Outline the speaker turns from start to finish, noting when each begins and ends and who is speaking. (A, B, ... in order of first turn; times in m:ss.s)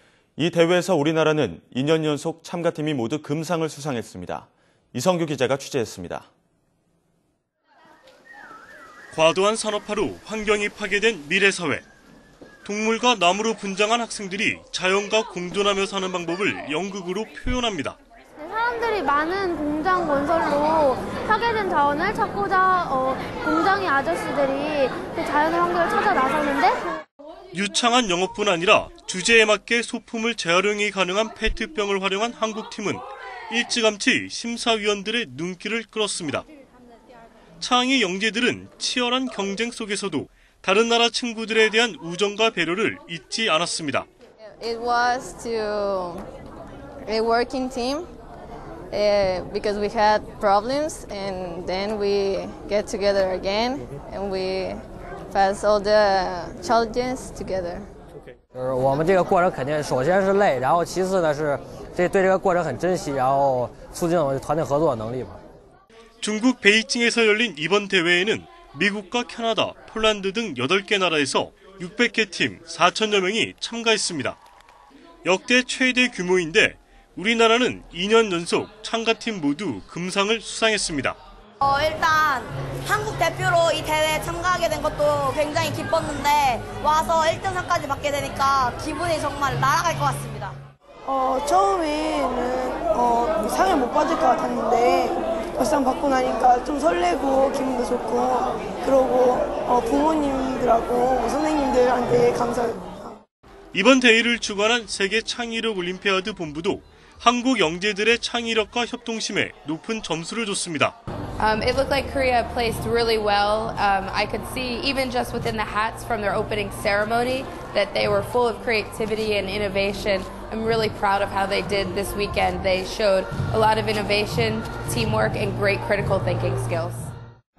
0:00.4-0:06.3 A
0:09.1-0:11.8 B
0:12.6-0:18.0 B
0:18.4-0:26.8 C
0:27.5-0:36.4 B
0:37.6-0:44.1 B
0:44.6-0:46.3 D
0:47.0-0:48.1 D
0:48.9-0:57.9 D
0:58.5-1:05.4 E
1:06.2-1:14.4 B
1:15.2-1:21.2 B
1:21.6-1:30.6 F
1:31.0-1:43.2 G
1:43.7-1:51.0 B
1:51.4-2:07.1 H